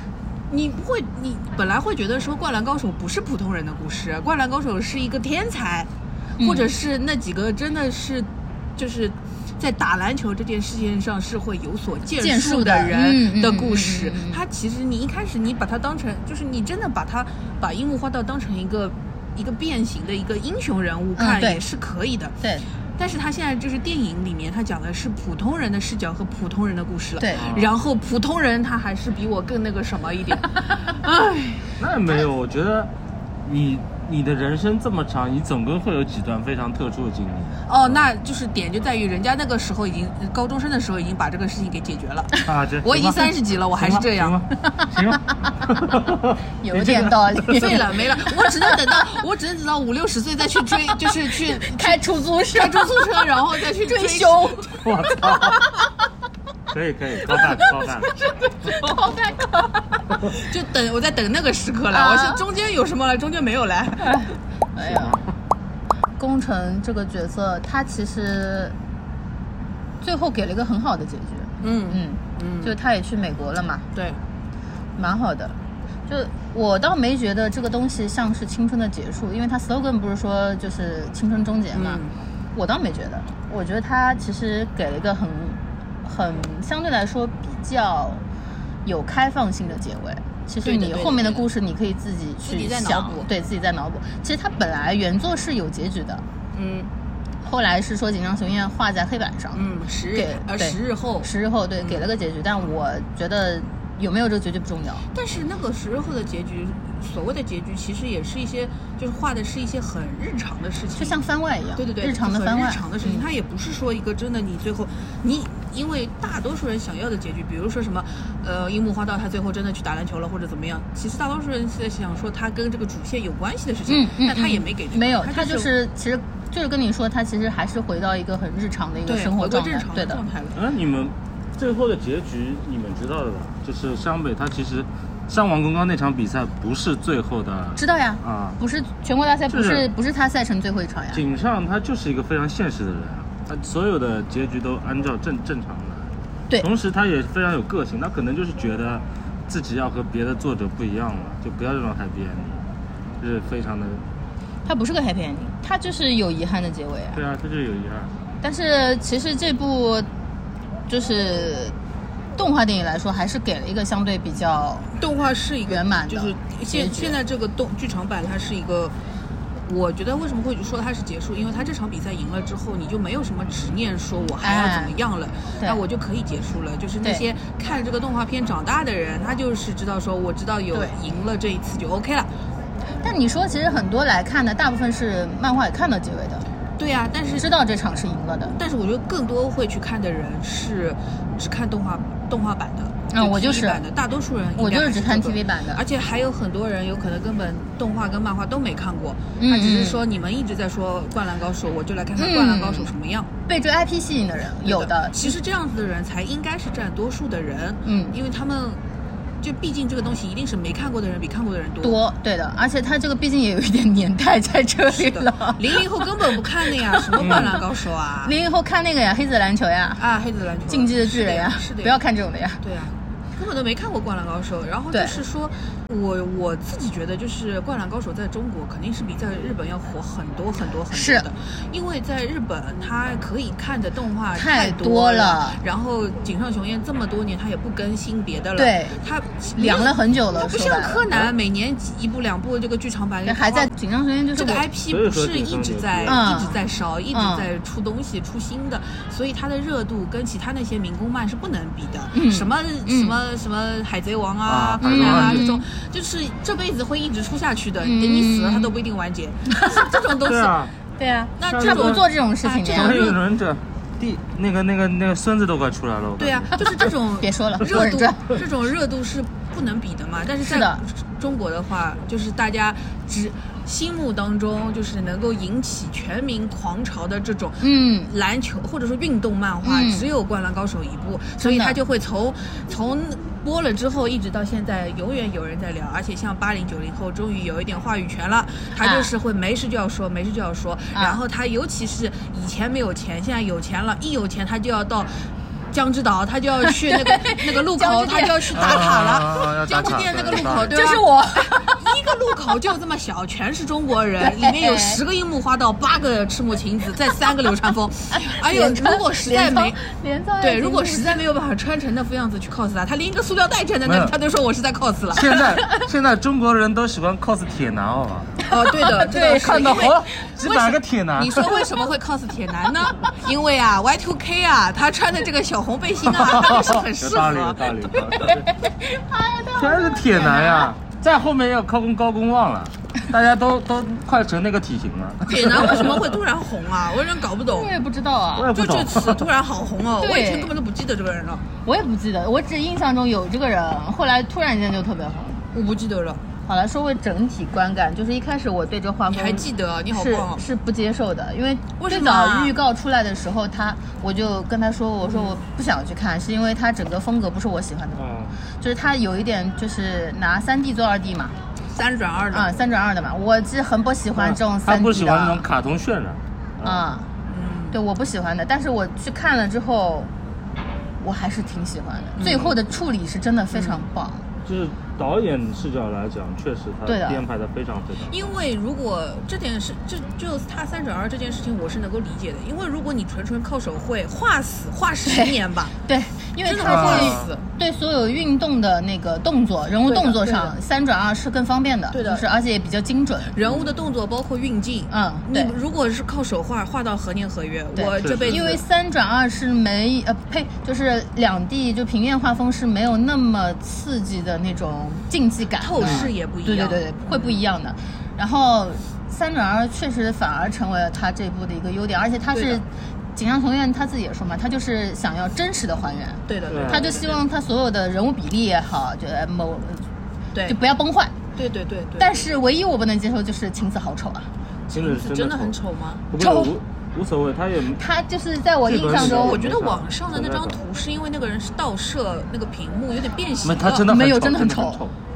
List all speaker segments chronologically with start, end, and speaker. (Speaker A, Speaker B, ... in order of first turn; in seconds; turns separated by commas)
Speaker A: 0.5-22.4, Speaker B: 6.4-6.7, Speaker B: 12.2-14.4, Speaker B: 21.2-21.6, Speaker A: 23.0-31.7, Speaker B: 27.2-27.5, Speaker C: 27.3-27.7, Speaker C: 31.8-32.9, Speaker C: 33.4-38.0, Speaker A: 37.7-44.4, Speaker C: 42.4-47.8, Speaker B: 46.6-49.0, Speaker A: 47.5-52.0, Speaker B: 50.9-53.0, Speaker A: 52.5-54.8, Speaker B: 53.8-55.7, Speaker C: 54.7-55.7, Speaker C: 56.7-58.1, Speaker B: 57.3-57.6, Speaker A: 58.6-59.1, Speaker B: 58.7-59.7, Speaker A: 60.1-64.2, Speaker B: 61.9-62.4, Speaker B: 64.0-65.2, Speaker C: 64.8-65.2, Speaker B: 66.2-68.7, Speaker B: 70.0-73.9, Speaker A: 71.6-72.7, Speaker A: 73.9-74.2, Speaker B: 75.0-75.5, Speaker B: 76.1-82.0, Speaker A: 81.7-82.2, Speaker B: 82.5-88.2, Speaker B: 88.8-96.2, Speaker A: 90.6-91.5, Speaker A: 92.4-93.3, Speaker A: 96.5-96.9, Speaker B: 97.4-105.1, Speaker A: 99.5-102.0, Speaker A: 105.1-111.2, Speaker B: 111.0-113.2, Speaker A: 111.8-125.7, Speaker B: 123.9-130.2, Speaker A: 129.1-130.6, Speaker C: 130.5-138.6, Speaker B: 137.8-141.2, Speaker C: 139.5-139.9, Speaker C: 141.1-152.6, Speaker C: 153.2-154.0, Speaker B: 154.7-157.2, Speaker C: 157.1-158.1, Speaker B: 158.4-160.1, Speaker B: 160.9-161.7, Speaker B: 162.4-165.0, Speaker A: 165.0-168.9, Speaker B: 165.7-167.2, Speaker A: 169.7-182.3, Speaker B: 174.4-174.9, Speaker B: 183.0-186.5, Speaker A: 186.8-187.5, Speaker B: 187.3-188.6, Speaker A: 188.6-203.3, Speaker B: 193.1-193.8, Speaker B: 194.6-195.8, Speaker B: 199.4-200.0, Speaker B: 202.2-202.9, Speaker B: 203.5-205.4, Speaker A: 204.6-208.8, Speaker B: 207.8-208.1, Speaker A: 209.4-212.0, Speaker B: 211.8-217.6, Speaker A: 214.9-218.3, Speaker C: 217.2-217.6, Speaker B: 218.2-220.0, Speaker A: 220.0-222.0, Speaker B: 220.7-222.6, Speaker A: 222.6-243.7, Speaker B: 230.9-231.3, Speaker B: 234.3-235.6, Speaker B: 238.6-239.0, Speaker B: 239.6-241.1, Speaker B: 243.2-244.7, Speaker A: 244.3-260.6, Speaker C: 244.9-246.3, Speaker B: 246.1-246.6, Speaker B: 247.1-247.5, Speaker B: 252.1-253.2, Speaker C: 254.4-255.5, Speaker B: 254.8-255.6, Speaker B: 257.8-258.7, Speaker B: 259.5-260.0, Speaker C: 260.2-260.7, Speaker B: 261.0-263.1, Speaker A: 261.4-263.2, Speaker C: 261.4-262.1, Speaker C: 262.6-266.6, Speaker A: 266.2-309.8, Speaker B: 267.2-268.4, Speaker B: 270.4-270.8, Speaker B: 277.6-278.1, Speaker B: 279.6-280.1, Speaker B: 281.4-281.8, Speaker B: 288.8-289.1, Speaker B: 290.9-291.2, Speaker B: 296.7-299.0, Speaker C: 298.5-301.0, Speaker B: 300.3-301.8, Speaker B: 304.2-305.0, Speaker B: 308.1-311.2, Speaker A: 310.4-315.6, Speaker C: 313.8-314.1, Speaker C: 315.1-318.3, Speaker A: 318.5-328.1, Speaker B: 318.5-320.0, Speaker C: 319.3-321.5, Speaker C: 326.1-328.5, Speaker B: 328.3-330.7, Speaker C: 329.5-336.1, Speaker A: 335.3-337.7, Speaker B: 337.5-338.5, Speaker C: 338.3-339.2, Speaker A: 338.5-341.4, Speaker B: 340.0-340.5, Speaker B: 341.6-345.4, Speaker A: 345.5-346.2, Speaker B: 346.4-358.0, Speaker A: 349.1-350.4, Speaker A: 351.8-352.6, Speaker A: 355.0-355.4, Speaker C: 357.9-358.3, Speaker B: 358.6-361.3, Speaker A: 361.7-362.6, Speaker B: 362.3-365.4, Speaker C: 364.1-366.8, Speaker B: 366.6-367.1, Speaker A: 367.3-367.8, Speaker B: 367.7-370.1, Speaker B: 371.0-374.2, Speaker A: 372.2-372.5, Speaker A: 373.5-373.8, Speaker C: 374.4-378.2, Speaker B: 376.9-377.2, Speaker A: 378.1-385.7, Speaker B: 385.1-393.4, Speaker A: 386.4-387.4, Speaker C: 386.7-387.3, Speaker A: 389.9-390.5, Speaker A: 391.9-392.2, Speaker A: 393.3-398.6, Speaker B: 394.9-395.5, Speaker B: 397.7-419.8, Speaker C: 398.0-398.6, Speaker A: 405.6-407.4, Speaker C: 405.8-406.1, Speaker A: 412.3-412.6, Speaker A: 416.3-417.1, Speaker C: 416.5-417.1, Speaker B: 420.4-421.2, Speaker A: 421.3-422.3, Speaker B: 422.0-424.3, Speaker C: 424.7-425.6, Speaker A: 424.7-426.0, Speaker C: 426.1-427.8, Speaker B: 426.1-426.5, Speaker B: 427.8-429.4, Speaker C: 428.6-430.6, Speaker A: 428.8-433.9, Speaker C: 433.4-434.9, Speaker B: 433.9-434.8